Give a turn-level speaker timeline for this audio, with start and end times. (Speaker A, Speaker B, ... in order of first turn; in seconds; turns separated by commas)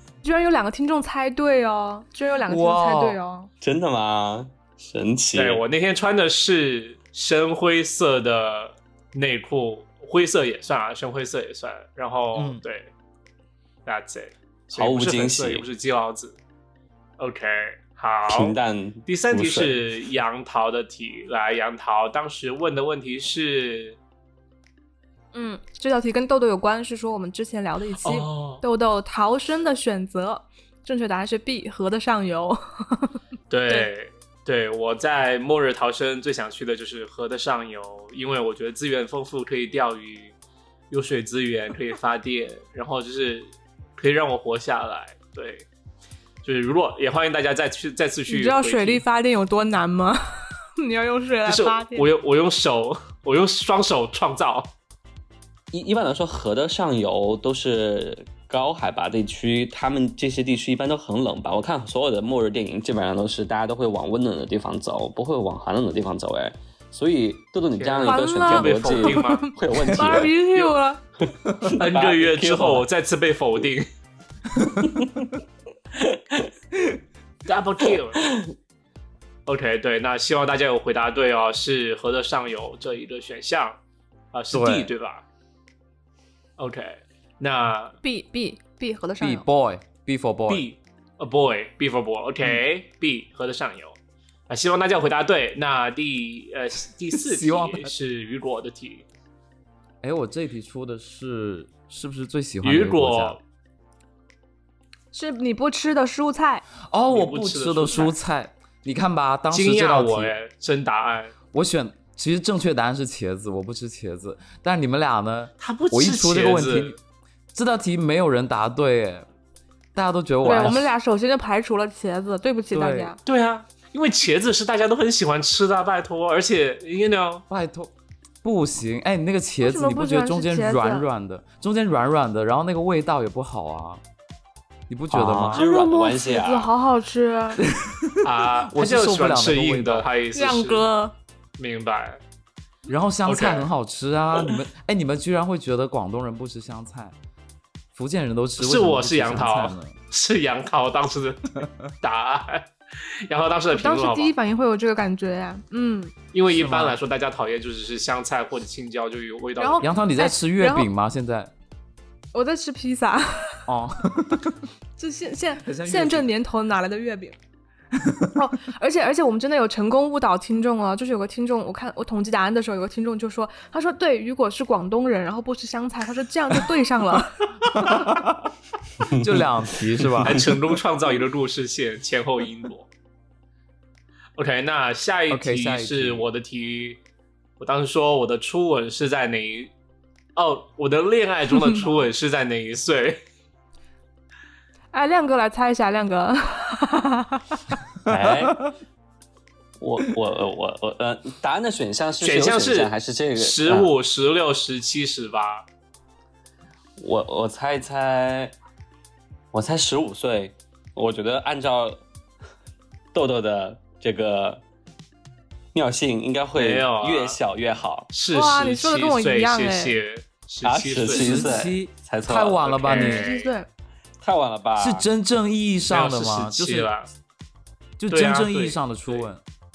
Speaker A: 0.2-3.5, Speaker B: 2.5-3.2, Speaker C: 3.6-5.6, Speaker D: 5.3-12.9, Speaker B: 12.3-12.6, Speaker D: 13.8-16.4, Speaker C: 14.7-15.7, Speaker D: 17.2-24.0, Speaker C: 18.3-19.8, Speaker A: 25.3-33.9, Speaker D: 28.0-28.6, Speaker D: 33.5-40.3, Speaker D: 40.9-45.7, Speaker D: 46.4-49.0, Speaker A: 48.3-52.1, Speaker D: 51.5-54.7, Speaker C: 55.7-70.3, Speaker D: 67.8-69.5, Speaker A: 68.0-71.0, Speaker B: 69.8-70.1, Speaker C: 71.6-72.8, Speaker D: 71.8-73.9, Speaker B: 74.5-75.0, Speaker C: 74.9-75.2, Speaker C: 76.0-76.5, Speaker D: 77.5-78.2, Speaker D: 79.5-83.8, Speaker D: 84.3-85.2, Speaker B: 84.5-84.9, Speaker D: 86.6-88.0, Speaker A: 88.0-89.4, Speaker B: 89.2-90.7, Speaker D: 90.5-94.0, Speaker D: 94.5-99.0, Speaker B: 97.2-97.9, Speaker B: 100.0-103.4, Speaker D: 102.6-103.4, Speaker A: 105.1-106.6, Speaker B: 106.8-110.3, Speaker D: 107.1-108.2, Speaker D: 109.5-111.3, Speaker B: 111.5-117.0, Speaker D: 115.6-117.0, Speaker B: 117.5-119.3, Speaker B: 120.0-120.9, Speaker A: 120.4-123.2, Speaker D: 120.5-120.7, Speaker B: 122.7-123.2, Speaker D: 123.2-127.4, Speaker B: 127.5-127.9, Speaker B: 128.4-134.0, Speaker A: 129.6-131.1, Speaker B: 134.9-135.6, Speaker C: 135.1-136.7, Speaker A: 135.5-137.6, Speaker B: 137.6-140.1, Speaker D: 138.2-140.8, Speaker A: 140.3-141.1, Speaker D: 141.6-142.2, Speaker B: 142.9-147.2, Speaker D: 143.3-143.7, Speaker B: 147.9-150.0, Speaker D: 148.6-152.7, Speaker D: 153.3-154.3, Speaker A: 153.7-156.1, Speaker D: 156.3-159.9, Speaker B: 156.5-157.0, Speaker A: 159.6-160.9, Speaker B: 159.8-161.5, Speaker A: 162.3-163.7, Speaker B: 163.7-164.6, Speaker A: 165.0-167.3, Speaker B: 165.6-166.3, Speaker A: 168.3-178.0, Speaker B: 177.7-178.5, Speaker C: 179.1-179.4, Speaker B: 179.1-180.4, Speaker D: 180.2-182.9, Speaker D: 184.4-187.0, Speaker B: 185.3-186.3, Speaker D: 187.6-189.7, Speaker D: 190.3-193.2, Speaker A: 194.9-197.4, Speaker C: 198.1-198.6, Speaker C: 199.8-203.9, Speaker D: 202.2-205.6, Speaker C: 207.0-208.5, Speaker C: 209.5-212.0, Speaker C: 213.1-214.6, Speaker C: 215.7-218.1, Speaker D: 216.5-217.4, Speaker D: 218.1-221.7, Speaker A: 218.3-220.0, Speaker C: 220.6-222.7, Speaker B: 221.0-223.3, Speaker D: 222.7-223.5, Speaker A: 222.9-223.7, Speaker C: 224.2-225.1, Speaker B: 224.8-226.9, Speaker D: 225.9-227.1, Speaker B: 228.0-229.4, Speaker D: 228.1-229.3